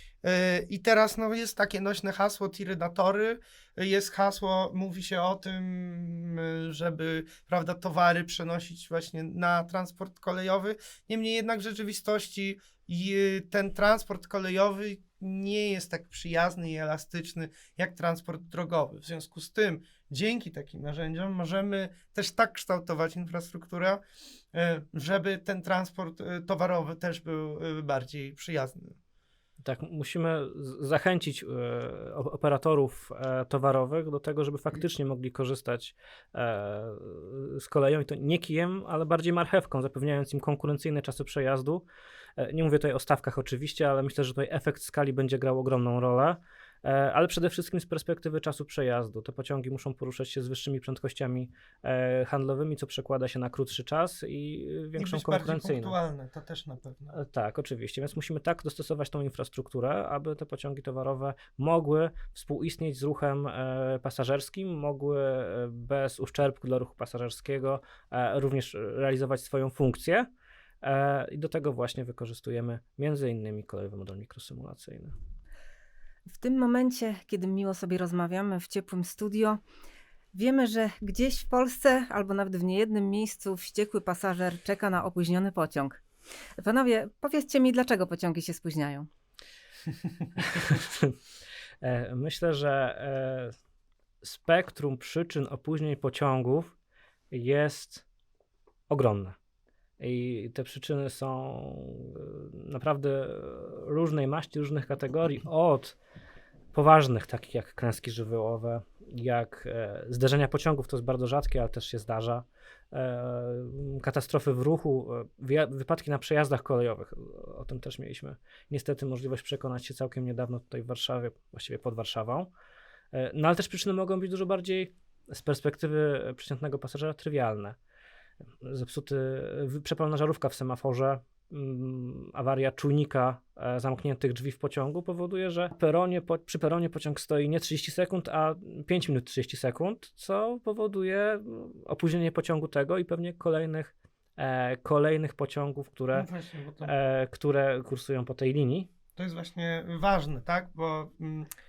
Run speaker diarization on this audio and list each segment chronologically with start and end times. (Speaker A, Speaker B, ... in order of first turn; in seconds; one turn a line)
Speaker A: 0.2-24.0
Speaker A: 24.5-29.0
Speaker B: 29.6-41.8
Speaker B: 42.4-55.9
Speaker A: 55.0-57.1
Speaker B: 57.1-70.3
Speaker B: 70.8-75.1
Speaker C: 76.3-79.6
Speaker C: 80.3-86.0
Speaker C: 86.6-89.1
Speaker B: 90.4-91.2
Speaker B: 91.8-93.5
Speaker B: 94.2-96.7
Speaker B: 97.3-98.0
Speaker B: 98.9-99.3
Speaker B: 100.0-106.0
Speaker B: 106.7-122.5
Speaker B: 123.1-127.8
Speaker B: 128.6-146.3
Speaker A: 146.1-146.9
Speaker B: 146.8-148.9
Speaker A: 149.2-151.5